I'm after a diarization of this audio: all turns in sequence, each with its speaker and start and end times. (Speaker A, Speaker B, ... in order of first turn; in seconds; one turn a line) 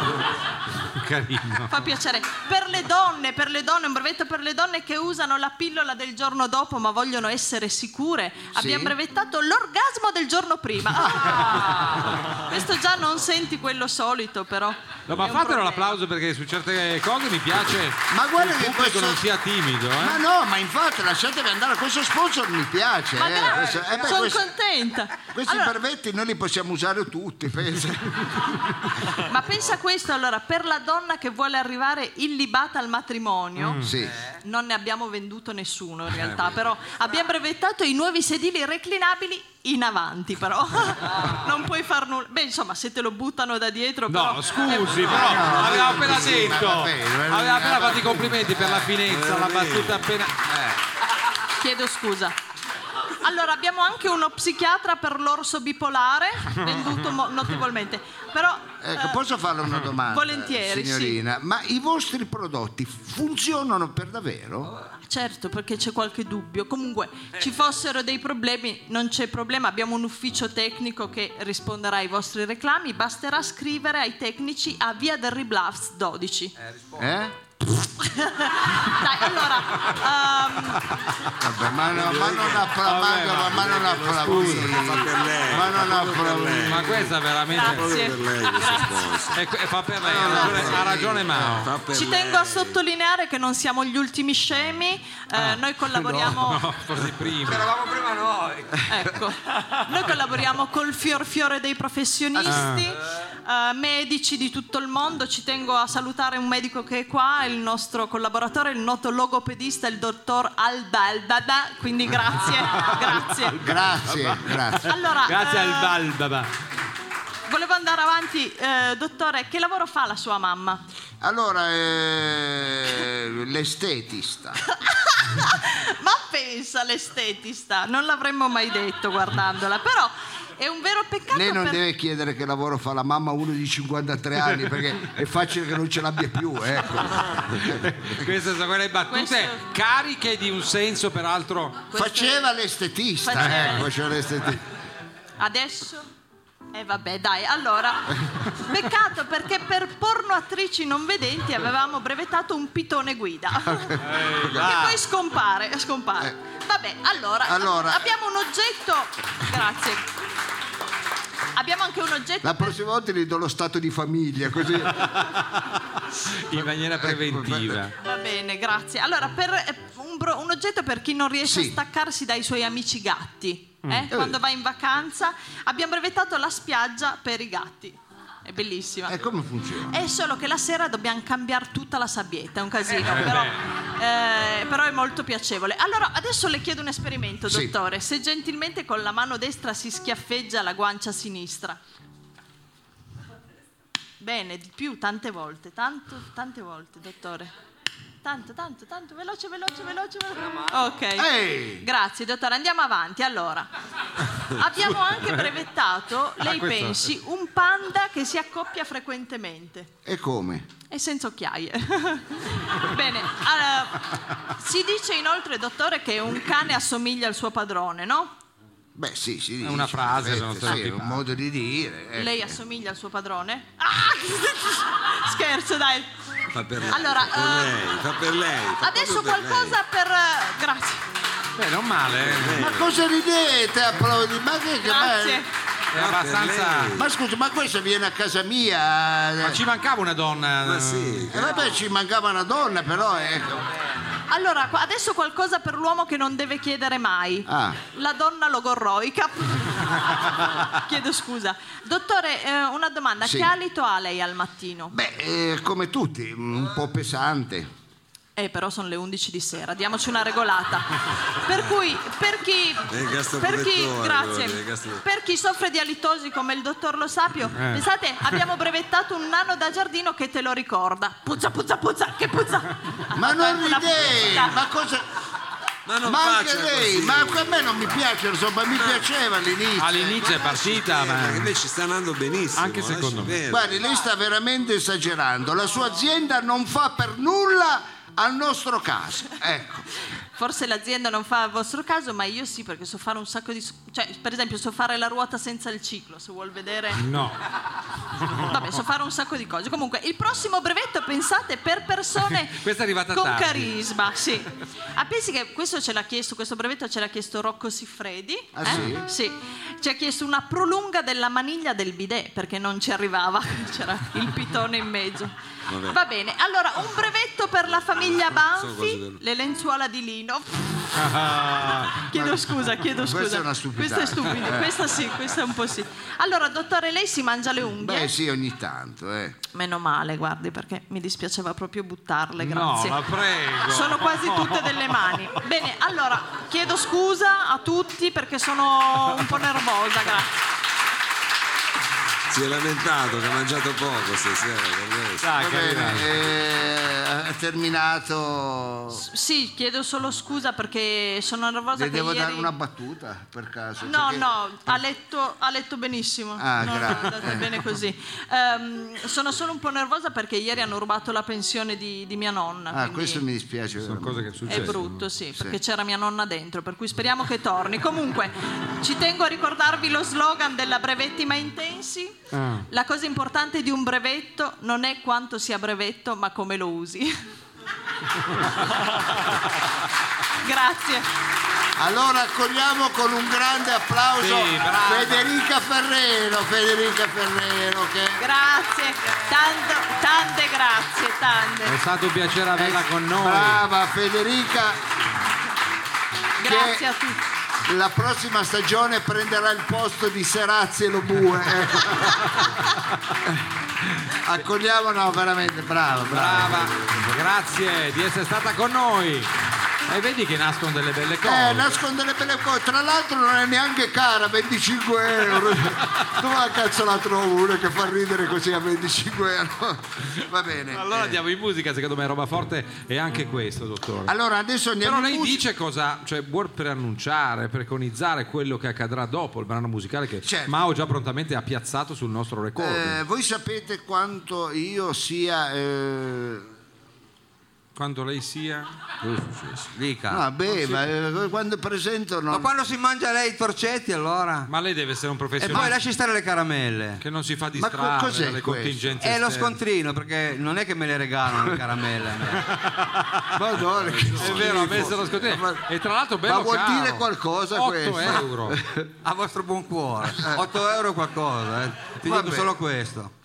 Speaker A: 0.9-1.7
Speaker B: 1.7-15.9
Speaker C: 8.5-8.9
Speaker A: 15.1-20.2
Speaker C: 18.1-19.2
Speaker C: 20.0-24.5
Speaker B: 23.1-25.7
Speaker C: 25.3-28.6
Speaker B: 29.2-33.8
Speaker A: 33.6-33.9
Speaker C: 33.8-34.1
Speaker B: 34.4-45.4
Speaker A: 44.1-50.5
Speaker C: 44.9-48.9
Speaker D: 49.0-50.1
Speaker B: 51.6-52.3
Speaker B: 53.2-59.2
Speaker C: 58.8-64.7
Speaker B: 60.0-61.2
Speaker B: 65.0-76.5
Speaker E: 76.7-77.0
Speaker C: 77.0-77.3
Speaker B: 78.0-80.9
Speaker C: 81.3-87.1
Speaker D: 81.9-82.8
Speaker A: 82.8-84.8
Speaker D: 83.5-89.4
Speaker A: 86.6-87.9
Speaker B: 87.5-89.1
Speaker A: 89.3-91.7
Speaker D: 90.0-92.8
Speaker B: 90.2-90.7
Speaker C: 90.3-91.3
Speaker B: 91.9-96.7
Speaker A: 95.3-95.6
Speaker A: 96.2-97.7
Speaker E: 97.5-98.9
Speaker B: 98.9-113.6
Speaker A: 102.4-102.9
Speaker A: 112.7-116.5
Speaker C: 113.6-115.0
Speaker B: 114.8-116.0
Speaker B: 117.5-120.8
Speaker C: 121.2-124.6
Speaker B: 124.6-131.8
Speaker C: 131.3-138.2
Speaker A: 137.6-141.9
Speaker B: 139.1-139.6
Speaker B: 141.9-142.5
Speaker C: 141.9-144.6
Speaker B: 143.2-143.9
Speaker A: 143.4-143.8
Speaker B: 145.4-146.1
Speaker B: 146.7-160.0
Speaker A: 154.0-155.0
Speaker C: 157.4-158.1
Speaker B: 161.5-162.7
Speaker C: 162.4-165.2
Speaker A: 165.0-167.9
Speaker C: 166.5-167.8
Speaker B: 167.9-179.2
Speaker C: 171.4-171.8
Speaker C: 174.1-174.4
Speaker C: 179.1-179.9
Speaker B: 179.9-191.8
Speaker A: 183.0-183.6
Speaker C: 187.5-187.7
Speaker B: 194.2-197.5
Speaker B: 198.2-203.7
Speaker C: 201.1-201.8
Speaker B: 204.5-209.9
Speaker A: 206.4-207.1
Speaker C: 210.0-210.7
Speaker B: 210.9-218.3
Speaker C: 218.9-222.6
Speaker A: 219.6-221.2
Speaker B: 222.1-226.1
Speaker D: 226.5-229.8
Speaker B: 226.9-227.8
Speaker B: 228.8-231.0
Speaker A: 231.6-232.6
Speaker D: 232.1-233.0
Speaker C: 232.5-235.4
Speaker B: 234.8-235.5
Speaker A: 235.9-236.9
Speaker D: 235.9-237.0
Speaker C: 236.9-239.6
Speaker A: 239.4-241.3
Speaker D: 240.6-241.8
Speaker C: 241.3-243.7
Speaker B: 244.3-254.9
Speaker C: 247.4-247.8
Speaker C: 253.2-253.5
Speaker C: 254.9-257.7
Speaker B: 258.4-274.6
Speaker D: 262.9-265.0
Speaker A: 267.5-268.4
Speaker C: 273.1-275.0
Speaker D: 275.9-278.0
Speaker C: 276.0-280.4
Speaker A: 279.8-281.5
Speaker D: 280.2-283.8
Speaker A: 282.5-283.4
Speaker C: 283.5-289.9
Speaker B: 290.4-297.1
Speaker A: 297.0-297.4
Speaker A: 298.2-298.6
Speaker B: 298.4-320.8
Speaker A: 302.2-303.7
Speaker C: 308.5-309.1
Speaker D: 315.7-316.0
Speaker D: 317.7-319.2
Speaker A: 320.9-322.1
Speaker B: 322.0-328.1
Speaker C: 322.1-322.4
Speaker C: 322.9-324.8
Speaker C: 327.8-329.4
Speaker B: 329.5-333.1
Speaker A: 332.4-335.4
Speaker B: 333.6-340.3
Speaker D: 342.3-345.4
Speaker A: 345.2-346.1
Speaker C: 345.4-349.0
Speaker B: 348.9-352.5
Speaker C: 351.7-354.2
Speaker B: 353.8-363.2
Speaker C: 356.4-357.6
Speaker C: 362.7-365.6
Speaker A: 363.8-365.1
Speaker B: 364.5-377.1
Speaker A: 372.3-372.6
Speaker B: 380.4-381.1
Speaker C: 381.8-388.2
Speaker A: 384.2-385.3
Speaker B: 388.2-391.8
Speaker A: 391.6-393.6
Speaker C: 392.6-394.8
Speaker B: 396.4-397.2
Speaker C: 396.4-396.8
Speaker C: 397.6-402.4
Speaker C: 404.0-406.7
Speaker A: 406.1-409.3
Speaker A: 409.9-411.8
Speaker C: 411.2-421.2
Speaker A: 420.7-424.1
Speaker C: 424.1-425.4
Speaker A: 424.8-433.0
Speaker C: 430.2-430.6
Speaker C: 432.6-436.5
Speaker A: 437.7-438.7
Speaker D: 439.0-439.7
Speaker E: 439.7-440.8
Speaker C: 440.1-442.5
Speaker E: 442.3-444.5
Speaker A: 444.5-445.7
Speaker E: 445.4-447.0
Speaker A: 447.0-449.6
Speaker C: 447.5-449.0
Speaker E: 449.0-452.5
Speaker A: 452.4-453.3
Speaker C: 453.3-455.7
Speaker D: 453.7-455.2
Speaker A: 454.2-458.6
Speaker C: 456.2-458.8
Speaker E: 458.9-463.1
Speaker C: 460.1-460.5
Speaker C: 462.0-462.5